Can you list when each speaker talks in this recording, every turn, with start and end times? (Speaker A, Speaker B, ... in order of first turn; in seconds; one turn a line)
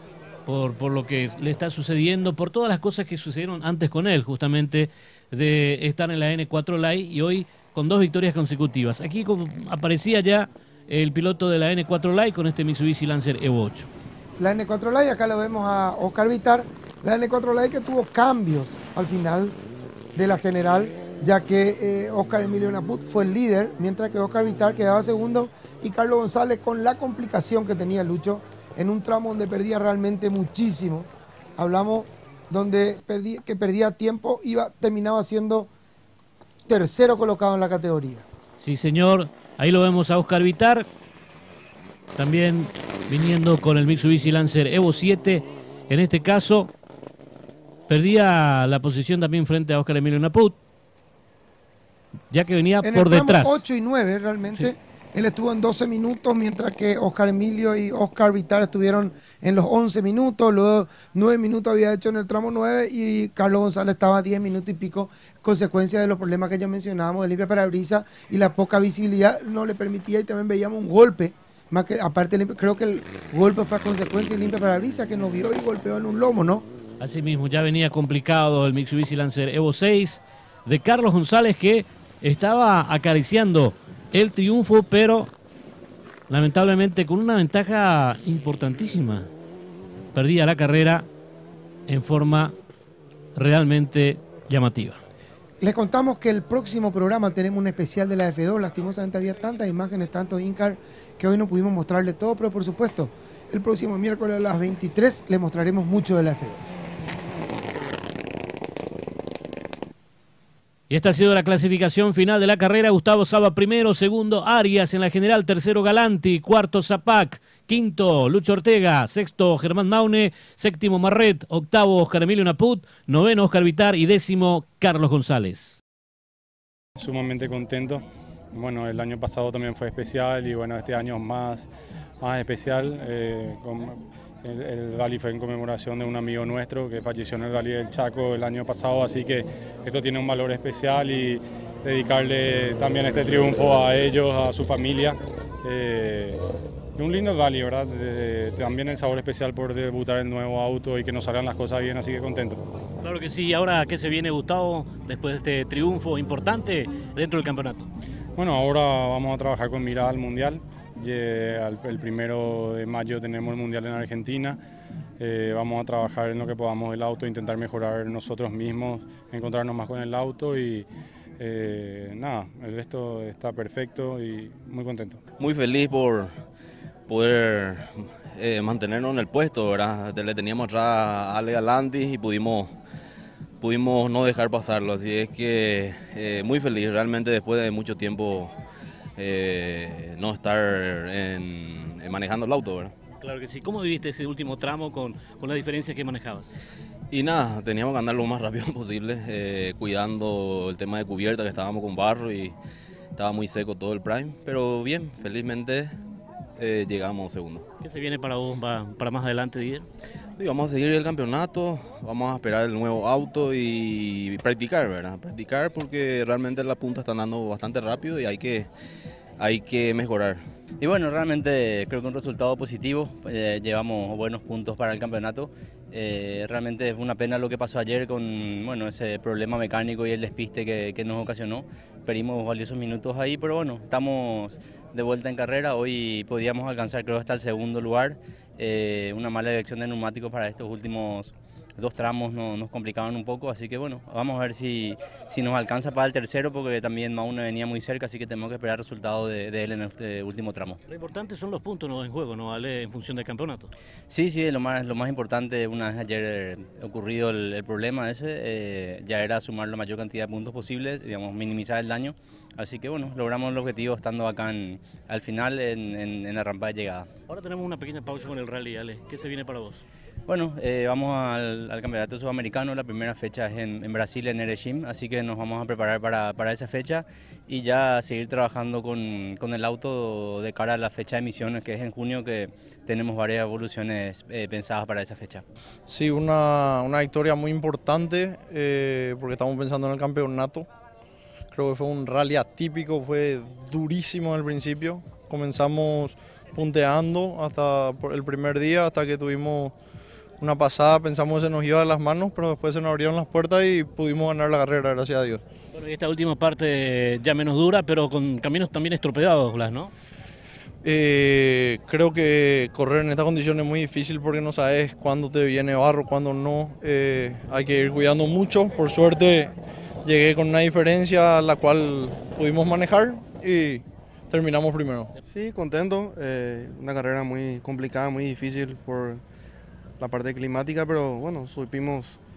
Speaker A: 0.5-13.9
Speaker B: 14.4-19.6
Speaker B: 20.2-35.7
Speaker B: 36.7-38.3
Speaker A: 38.6-40.9
Speaker A: 42.1-46.7
Speaker A: 47.9-50.6
Speaker A: 52.3-53.6
Speaker B: 52.8-76.7
Speaker A: 77.0-85.3
Speaker A: 86.3-89.3
Speaker A: 90.1-91.1
Speaker A: 91.9-92.6
Speaker A: 93.3-95.0
Speaker B: 95.6-106.8
Speaker A: 110.9-125.8
Speaker C: 127.0-131.7
Speaker C: 132.2-146.4
Speaker C: 147.0-152.6
Speaker A: 153.0-157.9
Speaker C: 158.4-164.6
Speaker C: 165.2-170.9
Speaker C: 171.4-175.2
Speaker D: 175.4-176.3
Speaker D: 177.1-182.7
Speaker D: 183.6-188.5
Speaker D: 189.2-192.9
Speaker A: 193.2-196.5
Speaker D: 197.1-202.6
Speaker D: 203.2-206.0
Speaker D: 206.6-207.6
Speaker A: 207.8-209.9
Speaker D: 210.4-218.7
Speaker D: 219.4-220.4
Speaker E: 220.8-250.8
Speaker A: 250.9-253.7
Speaker E: 254.1-267.1
Speaker A: 267.3-269.8
Speaker E: 270.3-285.4
Speaker F: 285.9-290.7
Speaker F: 291.5-299.7
Speaker F: 300.4-305.4
Speaker A: 305.7-309.9
Speaker F: 310.8-319.5
Speaker F: 320.0-325.1
Speaker G: 325.3-329.2
Speaker G: 330.0-332.2